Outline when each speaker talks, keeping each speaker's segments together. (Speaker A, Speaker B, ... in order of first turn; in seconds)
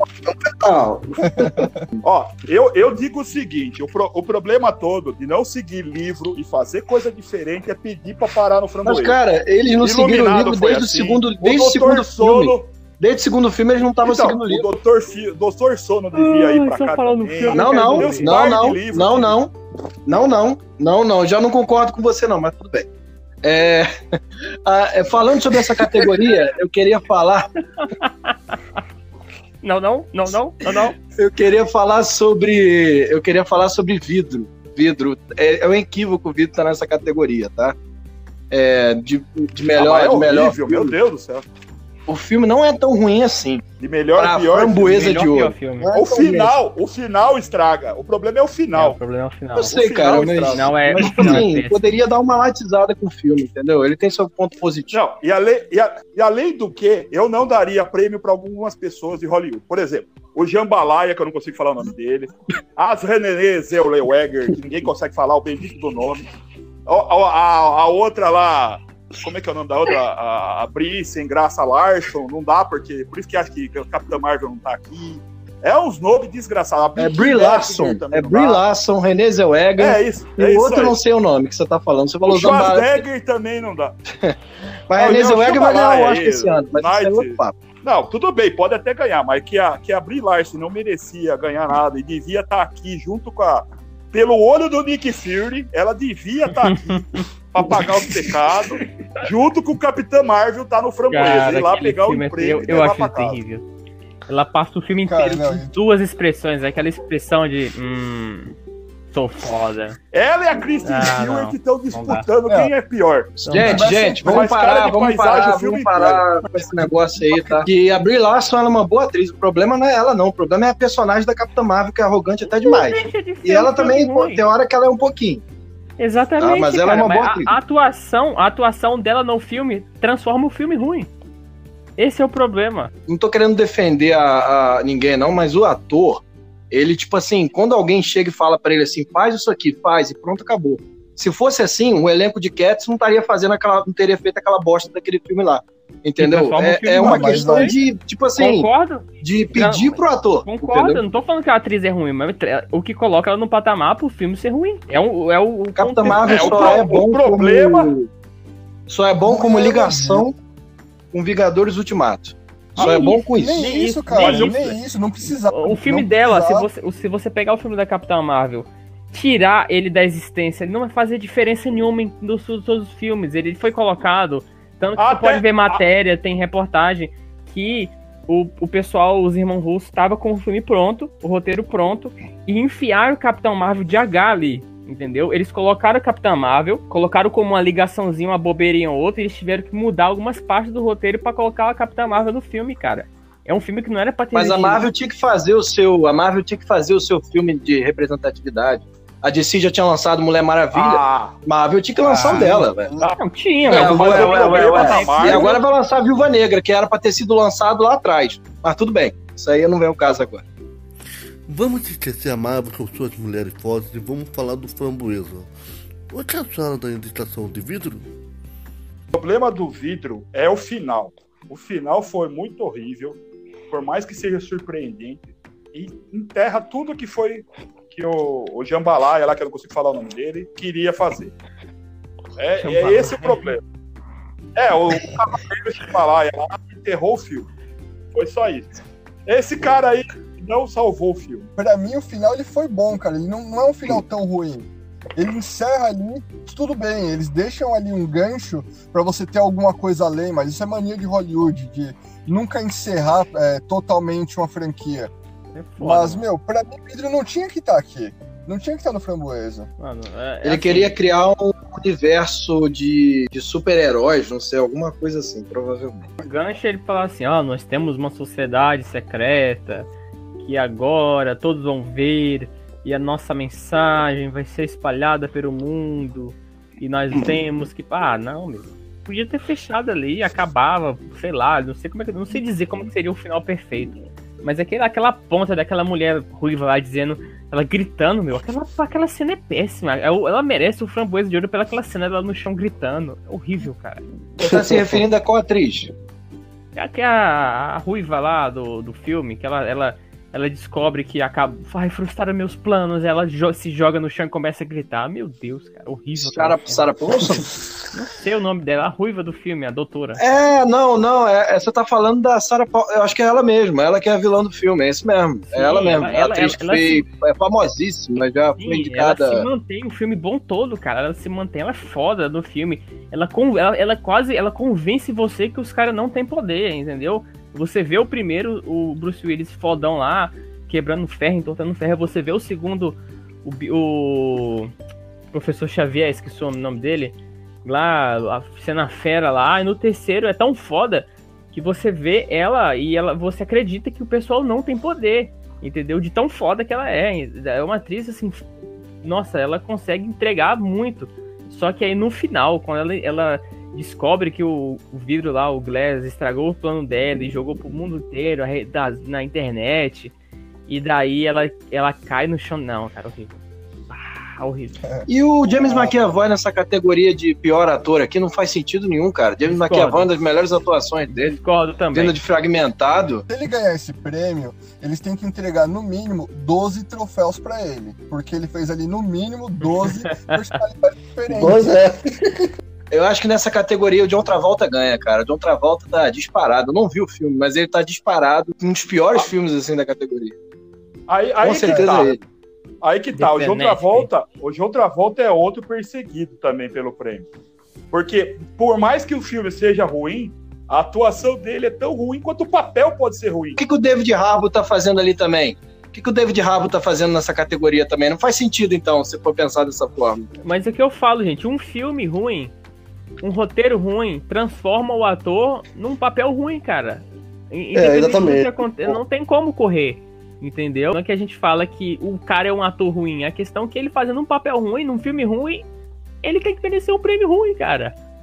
Speaker A: 0.2-1.7, 211.5-215.5, 216.1-218.1, 294.5-295.0, 381.3-382.5, 417.7-419.0
Speaker B: 1.4-1.7, 105.0-105.7, 113.5-114.5, 146.9-147.8, 159.2-160.3, 163.3-166.7, 202.1-203.1, 241.6-255.1, 255.8-259.7, 365.6-365.9, 373.3-381.7, 391.6-392.0
Speaker C: 2.0-9.2, 9.8-12.7, 14.0-19.4, 39.7-41.5, 43.8-45.2, 45.9-49.0, 49.6-51.4, 54.9-66.3, 66.9-78.6, 79.8-81.0, 82.3-83.9, 85.0-103.4, 110.1-113.3, 114.2-116.6, 156.1-157.9, 164.1-164.7, 175.0-175.8, 200.7-201.3, 203.0-205.6, 219.1-223.2, 223.7-225.2, 225.7-231.3, 232.4-233.6, 234.5-237.5, 238.1-238.7, 239.3-241.5, 391.1-392.1, 392.8-397.3, 397.9-403.6
Speaker D: 8.8-14.7, 17.5-19.5, 20.1-22.9, 23.4-23.9, 24.6-27.5, 31.1-37.7, 38.5-41.0, 42.1-43.6, 44.2-46.5, 49.5-55.0, 77.0-83.0, 84.9-87.6, 113.4-125.4, 126.4-127.5, 133.1-151.0, 155.8-158.1, 158.9-160.3, 161.1-163.6, 194.3-202.9, 203.6-210.4, 260.4-266.1, 294.4-295.9, 306.2-307.6, 310.2-319.5, 365.1-371.4, 371.9-373.2, 382.9-390.3, 391.4-392.2, 403.6-410.3
Speaker E: 16.1-18.4, 27.8-28.3, 29.6-31.0, 45.0-45.9, 48.7-51.8, 101.1-103.6, 104.3-108.5, 109.1-110.0, 110.8-112.2, 113.5-113.9, 122.6-124.4, 126.0-131.1, 132.0-132.9, 146.2-147.8, 148.3-156.9, 162.8-164.7, 165.5-194.9, 203.0-205.6, 232.6-233.5, 255.5-256.2, 259.8-261.0, 266.2-269.9, 270.4-294.0, 296.8-306.9, 307.9-310.2, 315.5-317.0, 318.6-334.7, 335.3-348.4, 349.0-360.1, 360.7-363.4, 363.9-364.8, 369.4-370.1, 371.1-372.2, 379.8-380.4, 393.1-394.1, 410.4-412.5, 413.2-425.7, 426.2-427.9